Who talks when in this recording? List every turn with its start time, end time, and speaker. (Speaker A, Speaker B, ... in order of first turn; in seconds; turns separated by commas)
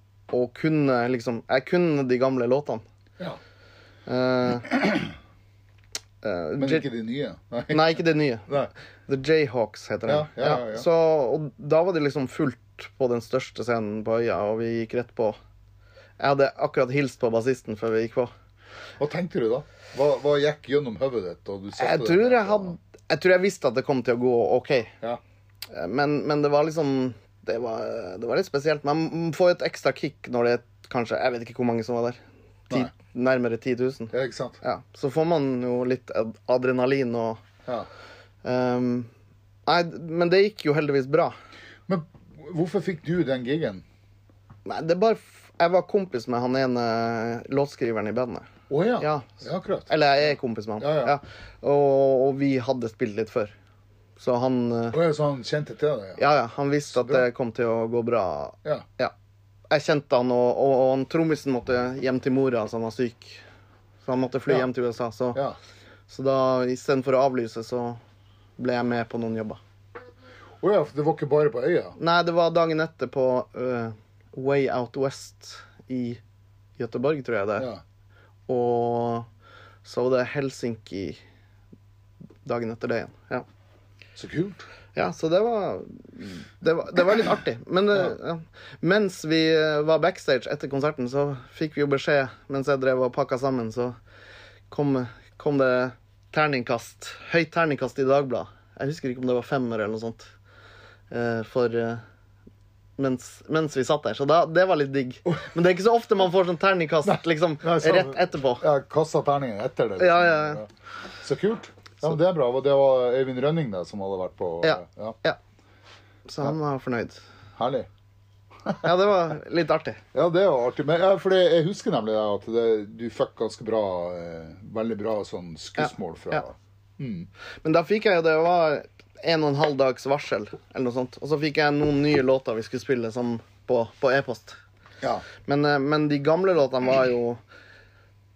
Speaker A: 0.3-2.8, Speaker A: 4.1-4.7, Speaker B: 4.7-5.1, Speaker A: 6.2-6.8, Speaker B: 6.6-8.7, Speaker A: 7.7-8.5, Speaker A: 9.1-15.4, Speaker B: 10.1-10.9, Speaker A: 16.2-18.3, Speaker B: 19.0-22.8, Speaker A: 21.8-24.9, Speaker A: 25.7-32.2, Speaker A: 32.7-37.4, Speaker B: 34.1-34.6, Speaker A: 38.4-39.1, Speaker A: 39.6-41.3, Speaker B: 41.9-43.8, Speaker A: 44.6-48.5, Speaker B: 48.7-51.2, Speaker A: 49.0-53.5, Speaker A: 54.2-55.0, Speaker B: 54.9-56.2, Speaker A: 56.2-59.1, Speaker B: 56.9-57.2, Speaker A: 59.7-63.4, Speaker A: 64.0-65.4, Speaker A: 66.1-68.0, Speaker A: 68.6-69.6, Speaker B: 70.6-72.0, Speaker A: 72.0-76.2, Speaker A: 76.8-77.7, Speaker A: 78.5-79.3, Speaker A: 79.8-81.2, Speaker A: 82.4-83.5, Speaker B: 84.2-84.7, Speaker A: 84.9-94.0, Speaker A: 94.7-100.3, Speaker A: 101.1-102.0, Speaker A: 103.0-108.6, Speaker B: 107.0-110.7, Speaker A: 110.0-110.6, Speaker B: 111.2-115.2, Speaker A: 114.6-115.4, Speaker A: 116.3-117.2, Speaker B: 117.5-117.9, Speaker B: 118.6-118.9, Speaker A: 118.8-120.0, Speaker B: 120.1-127.3, Speaker A: 125.8-126.4, Speaker A: 127.6-134.6, Speaker A: 135.4-137.4